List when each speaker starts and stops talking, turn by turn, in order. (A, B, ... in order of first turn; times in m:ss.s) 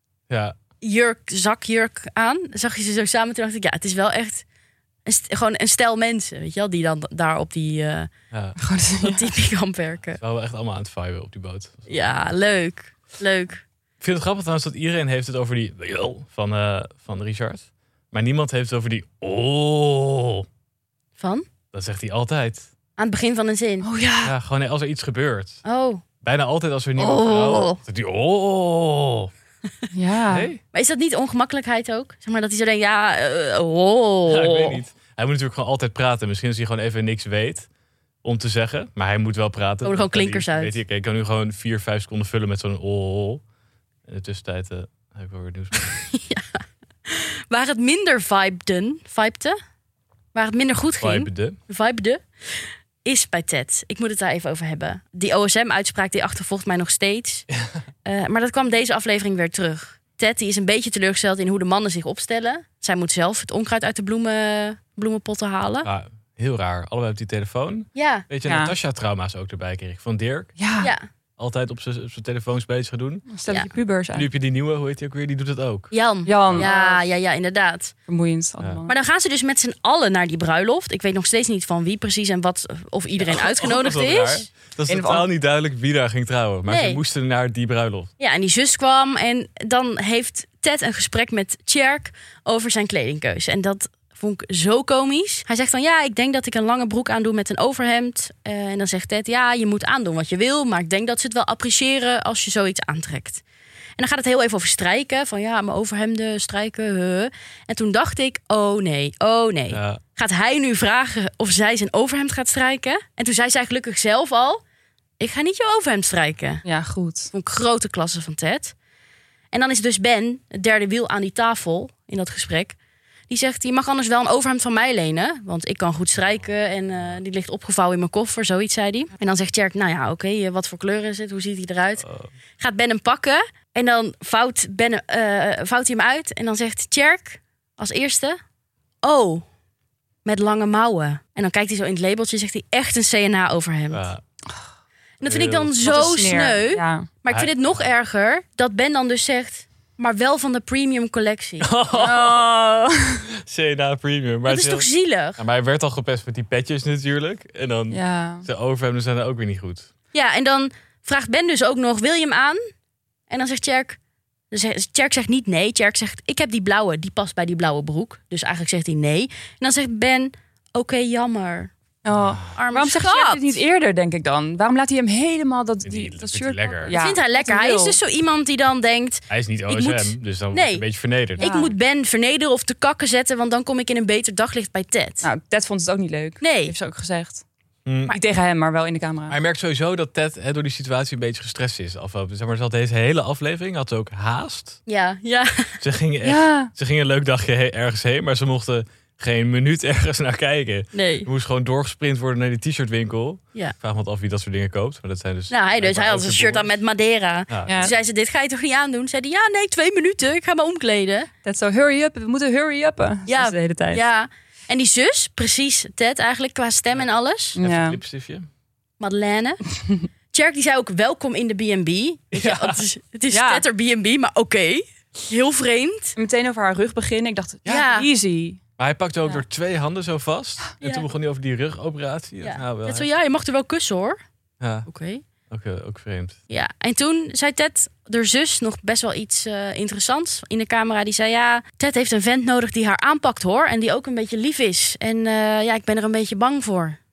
0:00.3-0:00.6 A
0:00.8-0:04.4 B
0:05.0-0:08.1 B
0:08.3-0:08.6 A
0:08.6-0:09.3 C
0:09.0-0:10.2 B
0:10.2-0:12.1 A
0:11.9-0:13.6 B
0:14.0-0:20.4 A
0:21.2-0:21.5 B
0:21.7-0:22.7 A
0:23.0-0:23.9 B
0:23.8-0:24.3 C
0:24.2-0:25.6 A
0:25.6-0:26.0 B
0:26.2-0:29.3 A
0:27.0-0:27.8 B
0:29.9-0:30.5 C
0:30.3-0:30.6 A
0:30.7-0:34.8 B
0:34.3-0:37.7 A
0:38.2-0:43.4 A
0:39.8-0:40.7 B
0:44.0-0:45.8 A
0:45.8-0:49.6 B
0:50.3-0:57.5 B
0:51.0-0:51.6 A
0:58.0-1:05.9 B
1:05.8-1:10.5 A
1:08.0-1:08.3 B
1:08.4-1:08.7 C
1:10.6-1:10.9 C
1:10.8-1:11.0 B
1:11.4-1:13.2 A
1:13.3-1:14.3 C
1:14.1-1:15.9 A
1:15.9-1:17.9 B
1:16.2-1:17.0 C
1:18.1-1:18.9 C
1:18.9-1:24.4 B
1:23.2-1:28.1 A
1:24.9-1:25.3 C
1:26.7-1:27.0 B
1:28.2-1:43.4 B
1:44.0-1:54.6 B
1:49.7-1:50.0 A
1:55.2-1:56.6 B
1:56.6-1:57.3 C
1:57.3-1:58.7 B
1:59.5-2:02.8 B
2:03.3-2:12.0 B
2:06.4-2:07.2 A
2:12.0-2:12.3 A
2:12.6-2:18.4 B
2:19.0-2:19.4 B
2:20.2-2:24.1 B
2:23.9-2:24.2 A
2:25.2-2:31.7 B
2:25.2-2:26.4 A
2:25.9-2:27.1 C
2:27.3-2:27.9 A
2:31.6-2:32.5 A
2:31.9-2:33.3 C
2:33.4-2:39.9 A
2:34.5-2:35.4 B
2:37.9-2:38.4 C
2:40.1-2:42.6 B
2:43.3-2:44.0 B
2:44.5-2:51.7 B
2:52.0-2:58.0 C
2:52.1-2:52.5 A
2:52.5-2:53.6 B
2:55.8-2:57.0 A
2:56.9-3:00.8 B
2:59.3-3:01.4 A
3:01.4-3:05.2 B
3:01.4-3:01.7 C
3:05.2-3:07.4 C
3:06.4-3:06.7 B
3:07.8-3:08.1 A
3:08.1-3:09.4 C
3:09.3-3:14.8 A
3:14.9-3:15.8 B
3:15.8-3:26.7 A
3:16.2-3:16.7 C
3:20.9-3:21.3 B
3:25.5-3:31.3 B
3:27.5-3:27.8 A
3:27.6-3:27.9 C
3:31.4-3:34.0 C
3:33.3-3:37.6 B
3:37.6-3:38.0 C
3:37.6-3:38.5 A
3:39.0-3:39.6 B
3:40.3-3:46.2 B
3:42.3-3:42.8 A
3:43.3-3:43.6 C
3:46.2-3:48.6 C
3:47.7-3:48.1 B
3:48.8-3:53.1 A
3:52.4-3:54.2 B
3:54.6-3:54.9 A
3:54.9-3:55.2 B
3:55.5-3:56.4 A
3:56.5-4:07.0 B